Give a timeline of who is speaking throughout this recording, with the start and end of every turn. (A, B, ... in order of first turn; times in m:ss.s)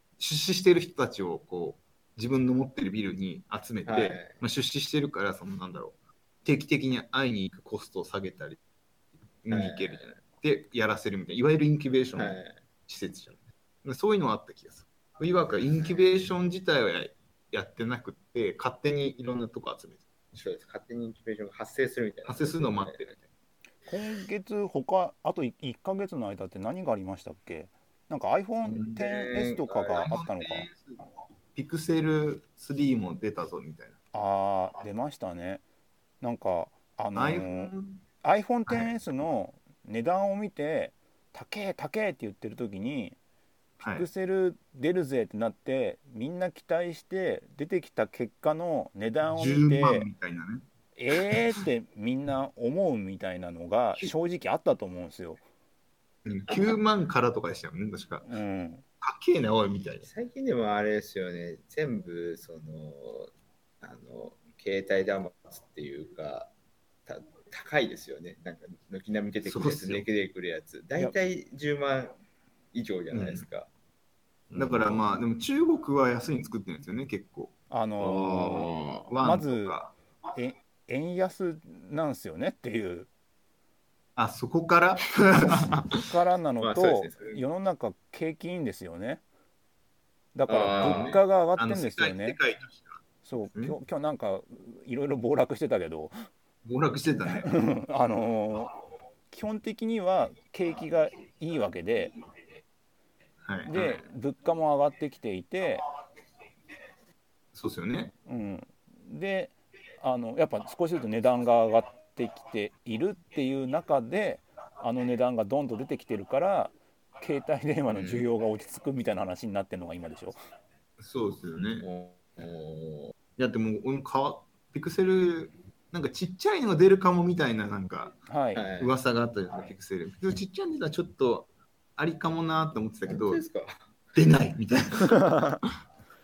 0:00.2-0:08.6 A
0:03.8-0:04.4 B
0:09.4-0:20.0 A
0:09.5-0:10.2 B
0:12.2-0:12.6 B
0:20.3-0:23.1 B
0:22.2-0:23.2 A
0:23.9-0:30.7 C
0:28.7-0:30.1 B
0:29.9-0:31.0 A
0:31.5-0:34.0 A
0:34.1-0:35.6 C
0:36.2-0:37.7 C
0:37.1-0:38.0 A
0:38.2-0:43.2 C
0:38.7-0:39.0 A
0:43.8-0:44.1 A
0:43.8-0:50.1 C
0:49.3-0:50.6 A
0:51.0-0:55.4 C
0:56.2-0:58.3 A
0:58.2-0:58.8 C
0:59.0-1:00.1 A
1:00.0-1:06.5 B
1:07.0-1:12.2 B
1:09.4-1:10.0 A
1:12.7-1:13.7 B
1:13.1-1:13.4 A
1:14.5-1:17.5 A
1:17.7-1:18.7 C
1:18.0-1:19.1 B
1:19.1-1:19.9 A
1:19.2-1:19.8 C
1:20.3-1:23.1 C
1:24.2-1:25.8 A
1:26.0-1:29.2 C
1:26.6-1:27.4 B
1:30.3-1:32.4 C
1:30.5-1:31.2 B
1:30.8-1:33.0 A
1:33.2-1:36.1 C
1:36.6-1:37.5 A
1:37.2-1:38.7 C
1:39.3-1:42.1 C
1:43.4-1:44.0 A
1:43.6-1:45.8 C
1:47.5-1:48.1 A
1:48.3-2:00.4 C
1:58.0-1:58.2 B
2:01.0-2:01.9 A
2:01.8-2:03.1 B
2:03.4-2:08.2 A
2:08.3-2:08.6 C
2:08.5-2:08.9 B
2:08.8-2:13.4 A
2:13.0-2:13.8 B
2:14.1-2:15.2 A
2:15.0-2:15.6 C